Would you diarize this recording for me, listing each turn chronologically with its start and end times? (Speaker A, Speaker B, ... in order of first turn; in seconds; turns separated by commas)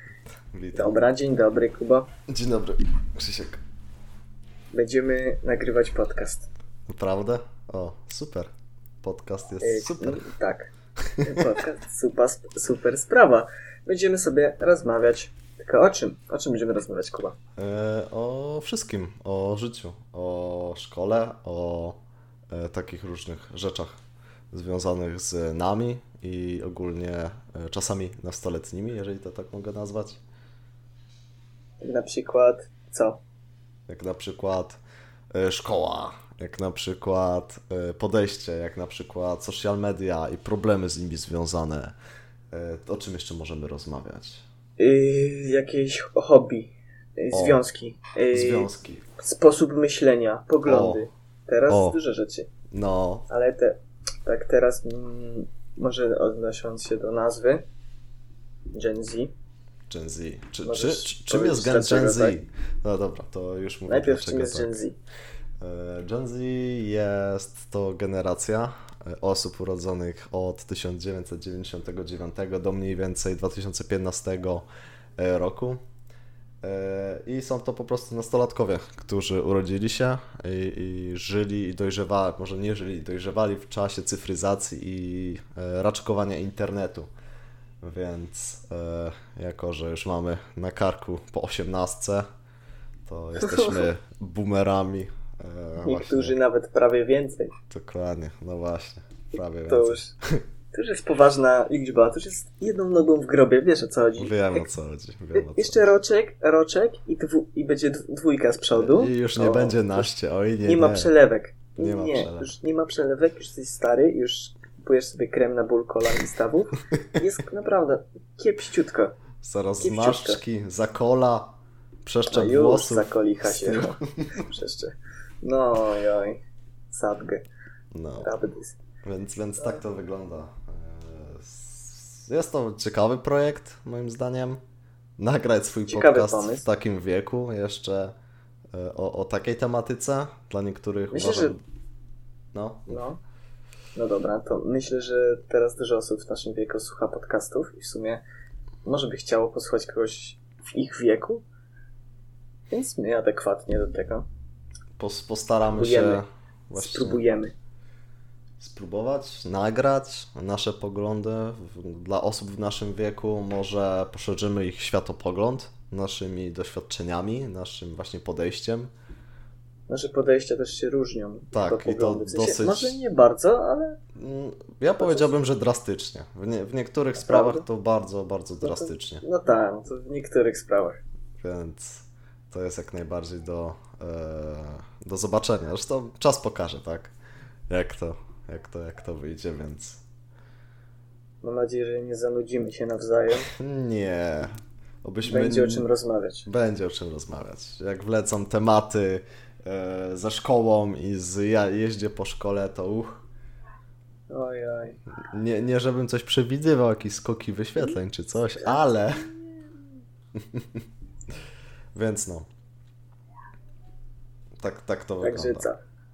Speaker A: 0.5-1.0, Speaker B: 0.7-2.1, Speaker A: 2.3-3.6, Speaker B: 4.7-6.5, Speaker A: 6.9-8.5, Speaker A: 9.0-10.2, Speaker B: 9.6-10.7, Speaker A: 11.1-11.4, Speaker B: 11.2-17.3, Speaker A: 17.6-22.0, Speaker A: 22.5-23.9, Speaker A: 24.5-30.2, Speaker B: 31.8-33.2, Speaker A: 33.9-34.8, Speaker A: 35.3-41.9, Speaker A: 42.5-44.4, Speaker B: 44.8-52.5, Speaker A: 47.3-47.6, Speaker A: 48.3-49.0, Speaker A: 50.6-51.1, Speaker A: 51.7-52.0, Speaker A: 52.7-53.3, Speaker B: 53.3-57.6, Speaker B: 58.7-59.3, Speaker A: 59.9-64.8, Speaker B: 60.6-62.4, Speaker B: 63.9-65.0, Speaker A: 65.6-74.7, Speaker A: 75.2-75.8, Speaker A: 76.6-87.1, Speaker A: 87.8-92.2, Speaker A: 93.0-96.3, Speaker B: 93.4-93.9, Speaker B: 95.8-97.5, Speaker A: 97.7-100.4, Speaker B: 99.7-100.1, Speaker B: 100.7-104.7, Speaker A: 104.2-105.8, Speaker B: 105.3-110.1, Speaker A: 108.7-111.1, Speaker B: 110.7-119.2, Speaker A: 111.8-112.5, Speaker A: 119.4-124.4, Speaker B: 119.8-120.4, Speaker B: 122.2-126.4, Speaker B: 126.9-127.4, Speaker A: 127.9-128.3, Speaker B: 128.2-128.8, Speaker A: 129.0-134.6, Speaker A: 135.2-138.1, Speaker B: 135.9-136.7, Speaker A: 138.7-141.6, Speaker B: 141.1-141.5, Speaker A: 142.5-143.0, Speaker B: 142.9-143.2, Speaker B: 143.9-148.2, Speaker B: 148.8-151.4, Speaker B: 152.7-154.2, Speaker A: 155.0-157.2, Speaker B: 155.7-157.5, Speaker A: 158.6-168.9, Speaker B: 169.9-174.0, Speaker A: 171.5-173.0, Speaker A: 174.1-179.2, Speaker B: 175.0-175.4, Speaker B: 177.2-177.6, Speaker B: 178.6-181.0, Speaker A: 181.4-187.1, Speaker A: 187.7-190.0, Speaker B: 191.4-193.5, Speaker A: 193.4-195.9, Speaker B: 195.2-196.5, Speaker A: 196.4-203.2, Speaker B: 204.3-205.0, Speaker A: 205.3-209.3, Speaker A: 210.4-210.8, Speaker A: 211.9-212.5, Speaker A: 214.6-215.7, Speaker B: 215.2-215.8